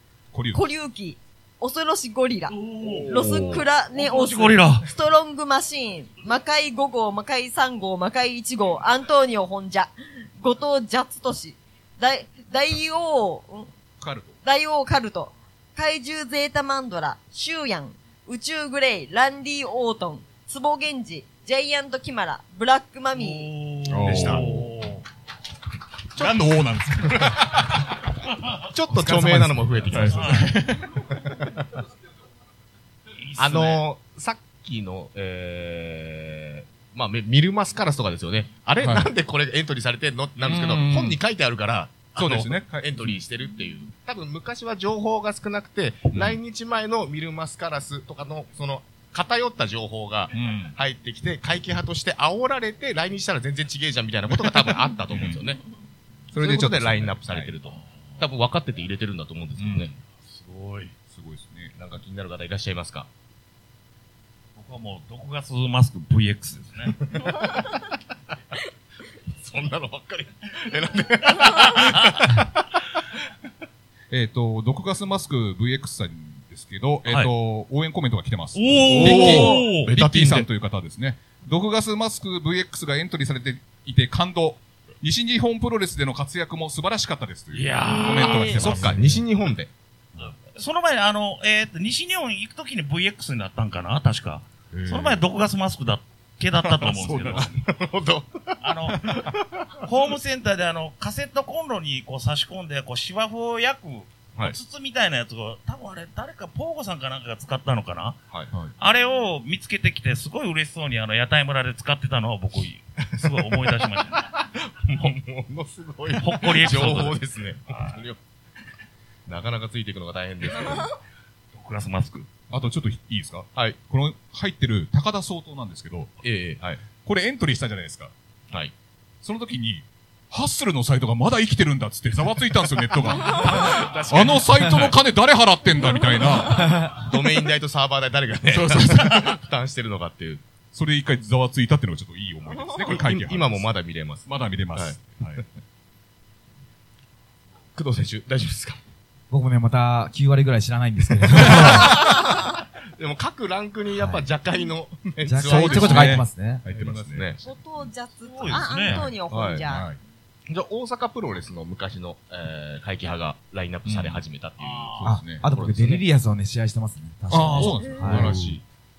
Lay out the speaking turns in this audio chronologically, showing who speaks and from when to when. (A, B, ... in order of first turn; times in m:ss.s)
0:00.3-0:00.6 A
0:00.5-0:02.6 B
0:02.5-0:04.9 C
0:03.1-0:13.7 B
0:03.1-0:03.6 A
0:14.0-0:14.4 A
0:14.4-0:23.5 B
0:23.1-0:25.0 C
0:23.8-0:24.6 A
0:24.0-0:24.4 D
0:26.1-0:27.8 A
0:26.2-0:26.4 D
0:27.1-0:27.4 D
0:28.6-0:30.5 D
0:28.9-0:31.1 A
0:29.2-0:29.7 E
0:30.1-0:30.5 C
0:31.1-0:31.5 D
0:33.2-0:33.8 C
0:33.4-0:55.6 D
0:38.8-0:39.1 A
0:40.4-0:41.2 A
0:42.2-0:43.2 A
0:46.1-0:46.4 A
0:50.3-0:50.8 A
0:54.3-0:55.4 A
0:56.3-0:57.5 A
0:56.4-0:59.9 D
0:59.6-0:59.9 A
1:00.2-1:00.9 C
1:01.1-1:01.7 A
1:01.7-1:03.1 D
1:04.6-1:07.0 C
1:07.0-1:07.7 D
1:09.3-1:12.5 D
1:14.1-1:29.1 A
1:17.0-1:17.3 C
1:18.5-1:19.9 C
1:18.9-1:20.5 D
1:27.5-1:28.8 C
1:28.5-1:29.7 D
1:28.8-1:29.2 E
1:30.2-1:37.5 C
1:34.7-1:35.2 A
1:36.6-1:37.5 A
1:37.1-1:38.6 D
1:38.6-1:39.1 C
1:39.8-1:48.2 C
1:48.8-1:54.3 C
1:54.6-1:58.2 D
1:56.2-1:57.2 C
1:59.2-2:01.0 D
2:01.5-2:02.3 C
2:02.5-2:06.1 A
2:06.2-2:06.8 D
2:07.0-2:08.1 A
2:09.2-2:17.1 A
2:13.2-2:14.9 D
2:16.9-2:20.4 D
2:18.5-2:19.4 A
2:20.7-2:23.7 A
2:22.8-2:25.4 D
2:24.2-2:25.4 A
2:27.7-2:28.8 D
2:29.3-2:32.0 E
2:31.3-2:37.5 D
2:34.0-2:34.3 E
2:35.2-2:36.6 E
2:35.4-2:37.3 A
2:37.4-2:39.9 B
2:38.3-2:39.1 C
2:38.5-2:39.6 D
2:39.6-2:40.0 A
2:40.5-2:46.0 D
2:43.8-2:44.2 A
2:44.6-2:45.1 C
2:45.0-2:45.4 A
2:45.0-2:48.6 E
2:47.3-2:48.6 A
2:47.6-2:48.6 D
2:47.6-2:47.9 B